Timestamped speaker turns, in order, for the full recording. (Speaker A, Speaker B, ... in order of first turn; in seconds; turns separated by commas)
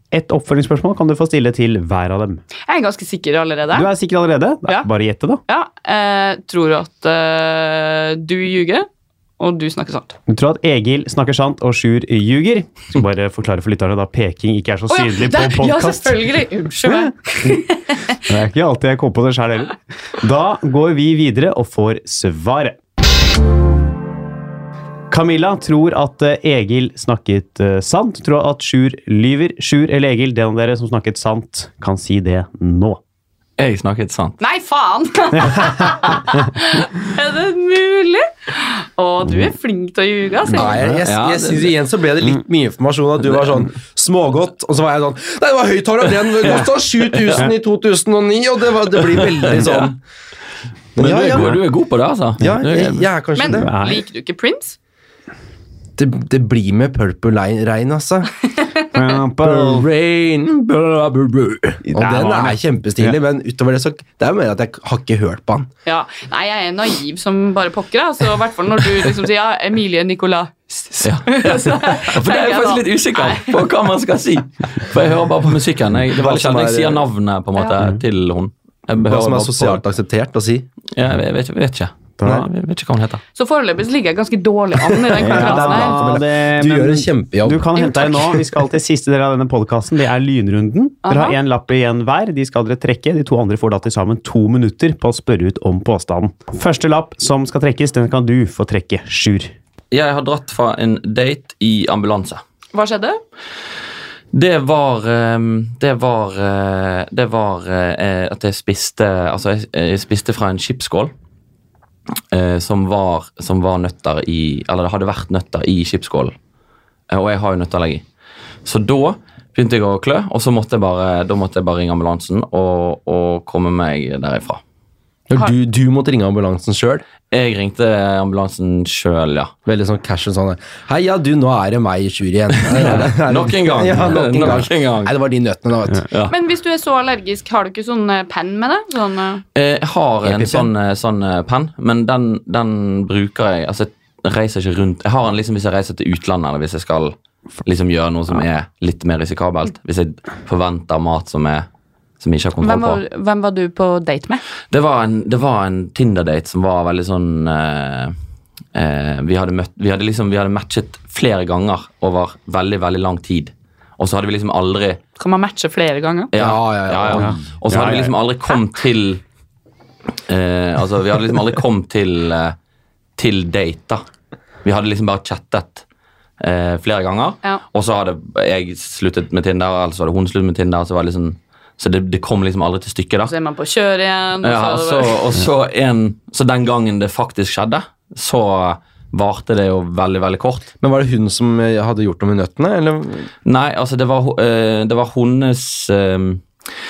Speaker A: 0.1-2.4, Speaker B: 2.6-3.9, Speaker A: 3.7-5.4, Speaker B: 5.5-8.9, Speaker B: 9.4-10.2, Speaker A: 10.3-16.3, Speaker B: 14.9-18.2, Speaker A: 16.9-17.6, Speaker A: 18.2-22.8, Speaker A: 25.1-33.0, Speaker C: 33.6-34.4, Speaker B: 34.4-40.8, Speaker D: 40.5-50.0, Speaker C: 41.0-41.7, Speaker C: 46.3-47.5, Speaker C: 49.0-50.0, Speaker D: 51.0-51.6, Speaker C: 51.0-53.1, Speaker D: 52.4-53.7, Speaker B: 53.3-54.8, Speaker A: 53.6-54.0, Speaker D: 56.0-58.3, Speaker A: 58.9-59.9, Speaker D: 59.4-65.7, Speaker A: 61.8-63.1, Speaker B: 65.8-73.7, Speaker C: 71.0-79.8, Speaker D: 76.1-77.0, Speaker D: 79.0-80.7, Speaker C: 81.0-83.2, Speaker B: 83.3-86.0, Speaker D: 84.8-88.4, Speaker A: 85.1-99.5, Speaker B: 91.0-91.4, Speaker C: 99.9-102.4, Speaker B: 102.7-103.2, Speaker C: 104.3-111.1, Speaker C: 112.3-116.3, Speaker C: 117.1-118.0, Speaker C: 118.6-124.6, Speaker D: 125.3-127.0, Speaker C: 127.3-129.5, Speaker D: 129.7-136.1, Speaker C: 132.6-135.1, Speaker C: 136.1-136.3, Speaker B: 136.3-139.4, Speaker C: 139.5-151.7, Speaker D: 140.2-140.7, Speaker C: 152.2-153.0, Speaker B: 152.6-154.4, Speaker C: 154.7-158.1, Speaker C: 158.7-165.0, Speaker B: 165.2-166.3, Speaker C: 166.3-169.2, Speaker D: 166.3-167.4, Speaker A: 167.1-168.1, Speaker C: 170.3-172.6, Speaker C: 173.2-174.0, Speaker C: 174.6-175.8, Speaker C: 176.4-183.3, Speaker B: 183.3-185.2, Speaker C: 184.4-190.7, Speaker D: 190.8-193.3, Speaker C: 193.4-196.4